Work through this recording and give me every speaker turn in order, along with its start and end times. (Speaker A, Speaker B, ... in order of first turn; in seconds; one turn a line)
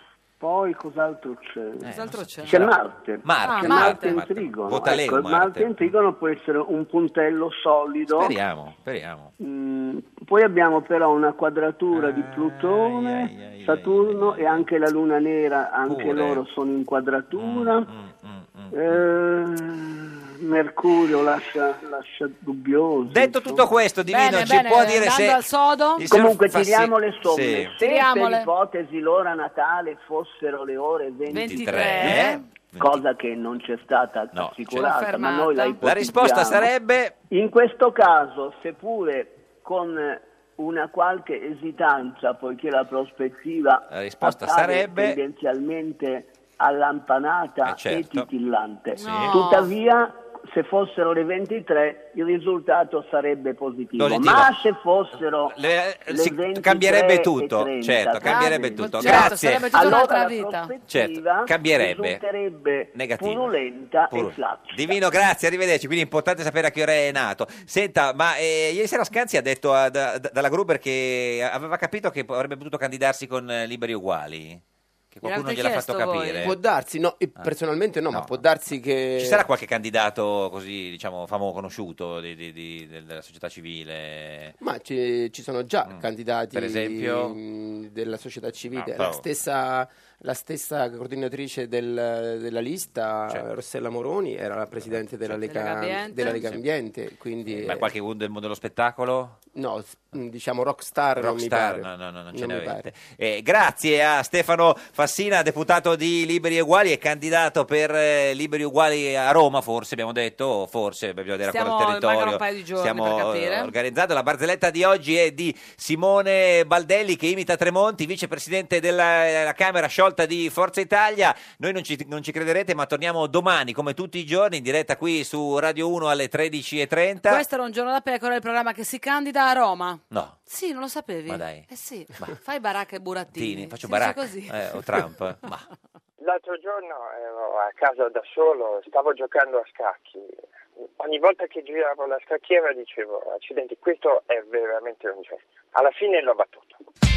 Speaker A: 0.4-1.9
Speaker B: 1.8-5.9
Speaker C: 1.9-2.7
Speaker A: 2.5-8.3
Speaker C: 3.4-4.2
Speaker B: 8.1-9.3
Speaker A: 9.4-17.9
Speaker B: 11.9-14.7
Speaker B: 15.9-16.4
Speaker B: 17.3-19.1
Speaker A: 18.7-23.7
Speaker B: 23.1-25.4
Speaker C: 24.1-26.1
Speaker B: 26.0-27.8
Speaker A: 26.1-36.7
Speaker C: 27.8-28.5
Speaker B: 31.3-33.0
Speaker C: 31.3-32.4
Speaker B: 34.3-34.9
Speaker C: 34.8-35.8
Speaker B: 35.8-37.1
Speaker A: 37.3-55.6
Speaker B: 43.9-45.2
Speaker B: 47.6-48.3
Speaker B: 49.0-49.4
Speaker C: 49.0-49.7
Speaker B: 54.0-54.5
Speaker B: 55.2-59.8
Speaker A: 56.1-65.0
Speaker C: 58.2-60.7
Speaker B: 60.9-62.2
Speaker B: 62.9-63.5
Speaker B: 64.1-76.6
Speaker C: 75.2-76.5
Speaker D: 76.4-79.4
Speaker B: 78.1-78.4
Speaker B: 79.2-84.5
Speaker D: 84.6-97.9
Speaker B: 86.5-87.4
Speaker B: 88.7-89.2
Speaker B: 94.9-95.3
Speaker C: 95.4-96.5
Speaker B: 96.2-96.6
Speaker B: 97.5-99.4
Speaker D: 99.5-102.9
Speaker B: 101.2-127.4
Speaker C: 111.5-113.7
Speaker C: 127.3-134.6
Speaker B: 130.1-130.4
Speaker B: 131.3-131.7
Speaker B: 133.3-135.7
Speaker E: 136.2-146.8